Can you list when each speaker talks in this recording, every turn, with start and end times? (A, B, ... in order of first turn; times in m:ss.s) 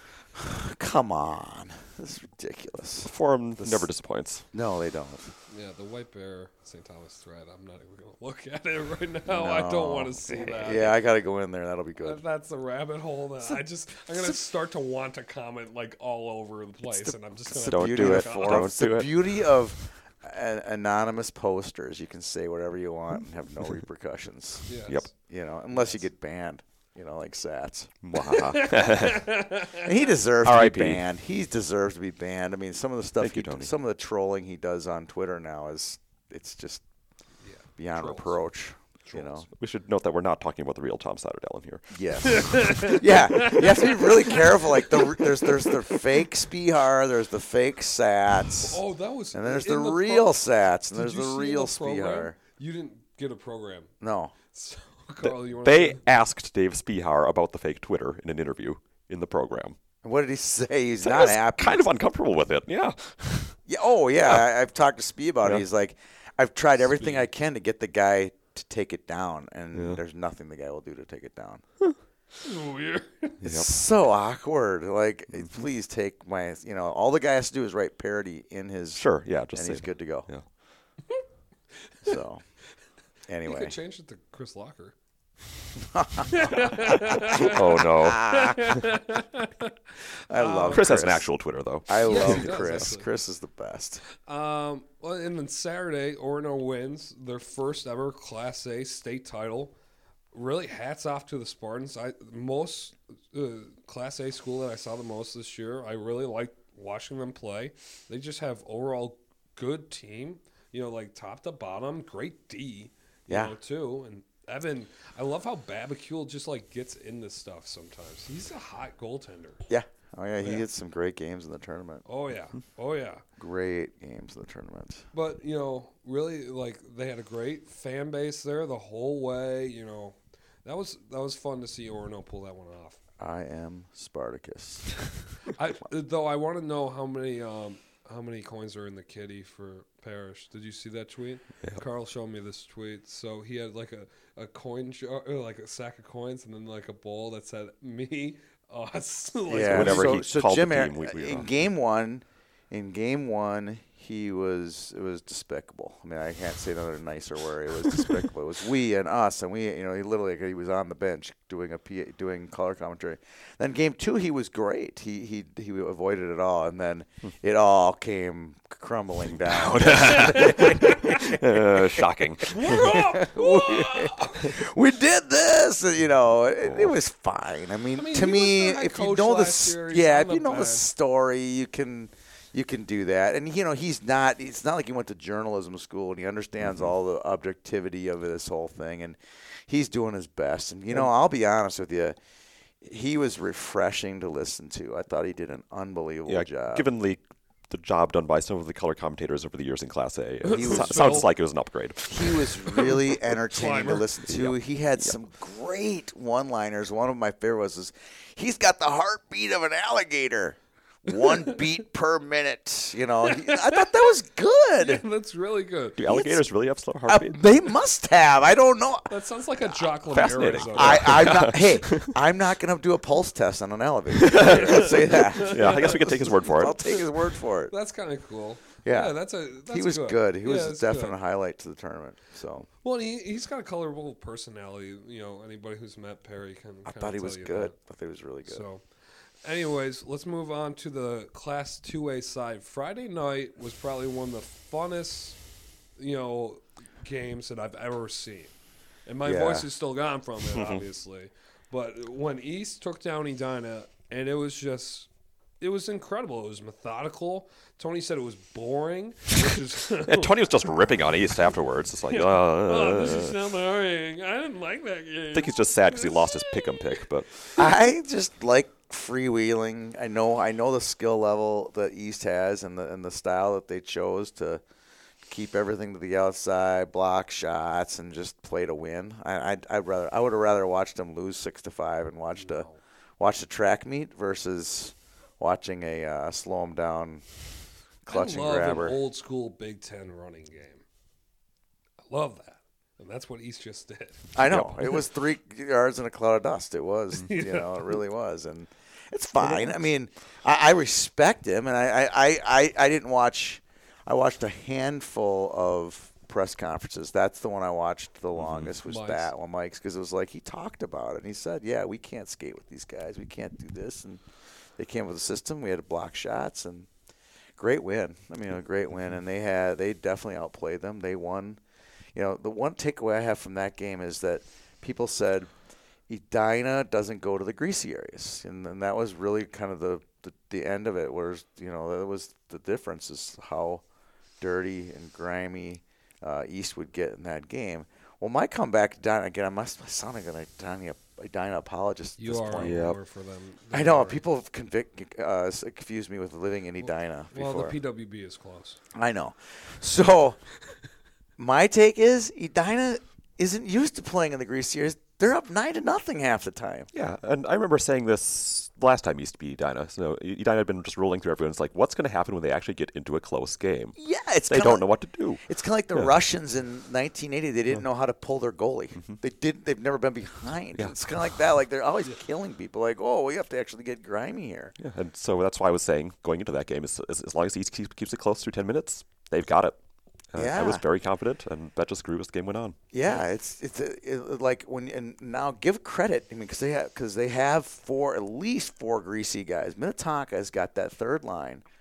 0:00.4-0:03.9 A
0:03.0-0:04.4 B
0:04.5-0:05.3 A
0:05.5-0:11.0 C
0:09.3-0:12.2 A
0:12.0-0:18.7 C
0:17.5-0:27.9 A
0:17.6-0:19.4 B
0:24.7-0:25.1 C
0:25.7-0:26.0 C
0:28.0-0:29.3 B
0:28.2-0:29.9 C
0:29.8-0:36.8 A
0:30.4-0:31.0 B
0:33.2-0:33.7 B
0:37.4-0:38.4 C
0:37.8-0:39.5 A
0:39.1-0:39.5 C
0:39.6-0:42.6 B
0:41.9-0:48.8 A
0:42.2-0:46.0 C
0:48.6-0:50.4 C
0:49.3-0:52.4 A
0:50.9-0:53.9 C
0:54.0-0:54.3 A
0:54.5-0:56.0 C
0:55.2-0:59.8 B
1:00.0-1:01.8 A
1:01.0-1:03.6 B
1:03.7-1:11.6 A
1:09.7-1:10.0 B
1:12.4-1:13.4 C
1:13.4-1:13.7 B
1:13.5-1:20.3 A
1:19.0-1:20.4 B
1:22.0-1:22.4 A
1:23.3-1:23.7 A
1:23.4-1:25.0 C
1:25.9-1:28.6 A
1:26.3-1:29.7 C
1:27.3-1:28.8 B
1:30.3-1:31.3 A
1:30.3-1:30.8 C
1:30.7-1:32.8 B
1:31.9-1:34.0 A
1:32.0-1:33.1 C
1:34.2-1:39.8 C
1:40.3-1:59.6 C
1:53.3-1:53.6 A
1:59.7-2:02.0 A
2:00.4-2:00.7 C
2:02.1-2:03.2 C
2:03.4-2:05.1 A
2:05.1-2:13.0 C
2:13.2-2:15.0 A
2:15.5-2:30.3 C
2:29.5-3:12.2 A
2:29.6-2:31.5 B
2:49.3-2:52.8 B
2:50.6-2:51.0 C
2:52.5-2:54.6 C
2:56.6-2:56.9 B
2:58.0-3:00.9 C
3:12.8-3:16.9 A
3:16.3-3:22.9 B
3:20.5-3:21.3 C
3:20.5-3:21.2 A
3:22.1-3:35.0 A
3:23.5-3:24.1 C
3:24.3-3:25.1 B
3:33.2-3:34.1 C
3:34.8-3:36.0 C
3:36.0-3:37.4 B
3:36.1-3:36.4 A
3:37.1-3:47.7 A
3:39.1-3:41.4 C
3:40.1-3:42.2 B
3:44.2-3:46.8 B
3:44.3-3:47.0 C
3:47.7-3:51.2 C
3:48.8-3:52.7 A
3:52.8-3:57.8 C
3:56.8-3:58.6 A
3:58.5-3:58.8 C
3:59.4-4:05.4 C
4:06.0-4:08.5 C
4:09.1-4:15.1 C
4:09.2-4:09.7 A
4:10.5-4:10.8 B
4:15.6-4:20.3 C
4:20.1-4:23.3 B
4:22.1-4:27.0 C
4:25.3-4:27.4 B
4:27.6-4:34.6 A
4:35.3-4:42.7 A
4:42.4-4:42.8 C
4:43.2-4:47.2 A
4:48.0-4:49.0 A
4:48.1-4:50.8 C
4:52.1-4:54.3 C
4:54.4-5:14.2 A
4:54.4-4:54.8 B
4:57.2-4:58.0 C
5:08.4-5:08.7 B
5:08.8-5:09.3 C
5:14.8-5:16.9 A
5:17.6-5:21.6 A
5:22.2-5:25.5 A
5:26.1-5:33.8 A
5:34.4-5:42.8 A
5:42.2-5:44.2 C
5:42.5-5:43.0 B
5:43.7-5:47.8 A
5:46.8-5:48.8 C
5:48.9-5:50.4 A
5:51.4-5:56.9 A
5:56.9-6:04.0 B
6:04.0-6:04.8 A
6:04.5-6:05.4 B
6:05.4-6:14.7 A
6:14.8-6:19.8 B
6:20.3-6:22.8 B
6:20.4-6:20.8 A
6:22.9-6:31.6 A